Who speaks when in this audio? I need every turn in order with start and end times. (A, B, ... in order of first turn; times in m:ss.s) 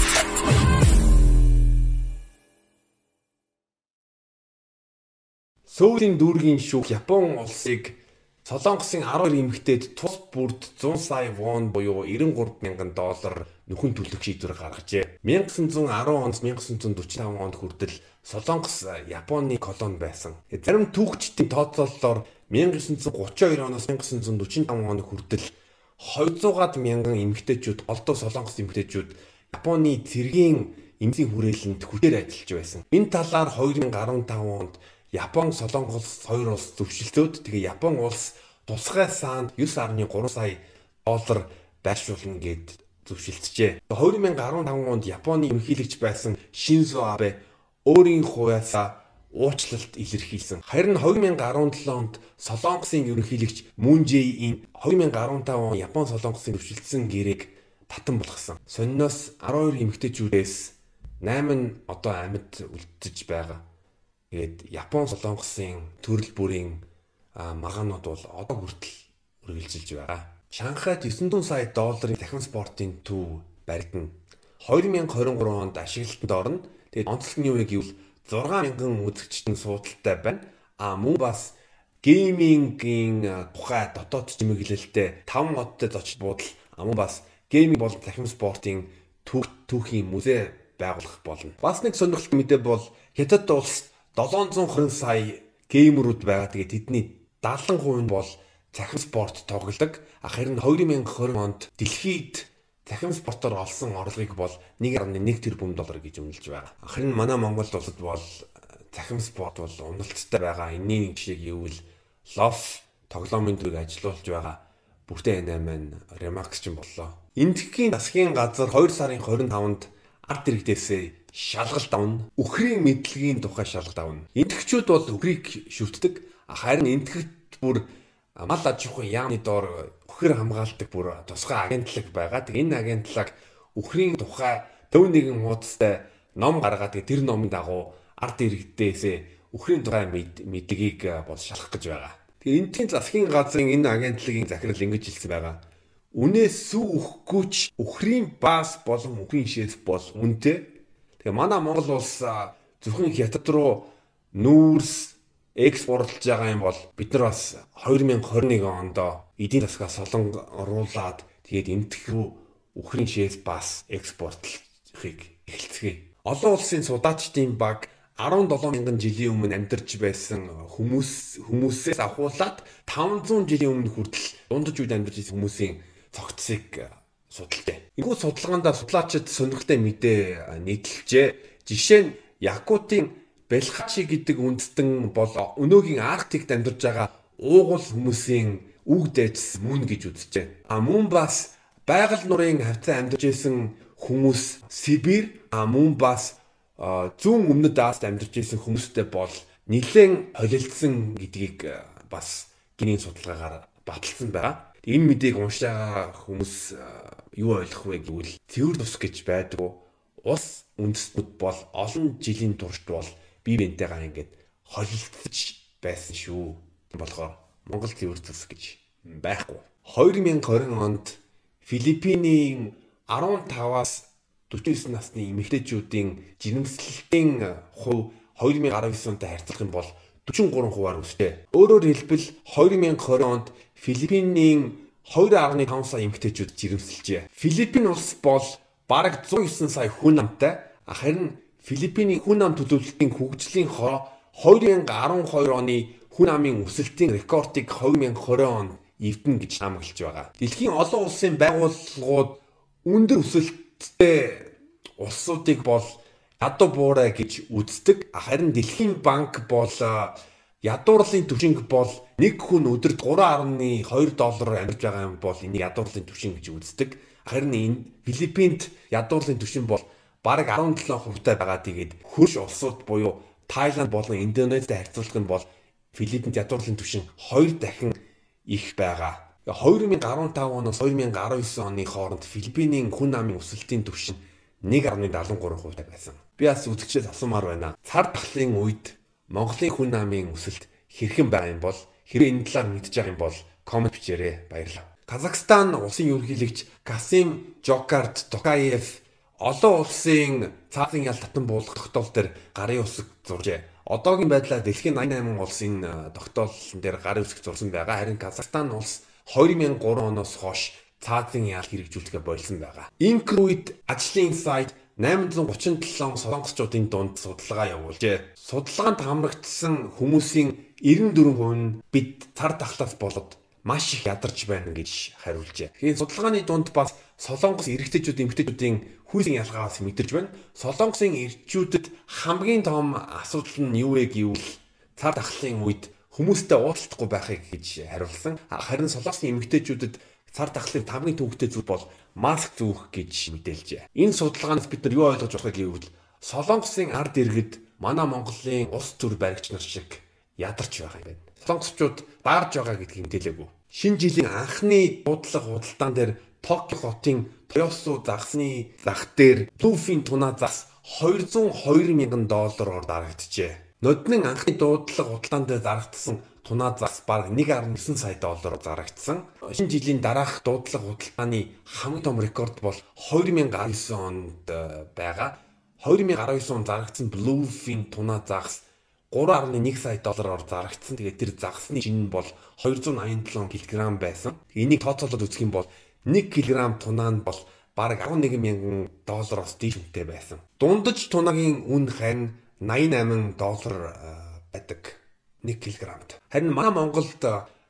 0:05.7-1:03.6 A
1:04.3-1:06.8 A
1:07.4-2:25.6 A
2:26.1-6:37.5 A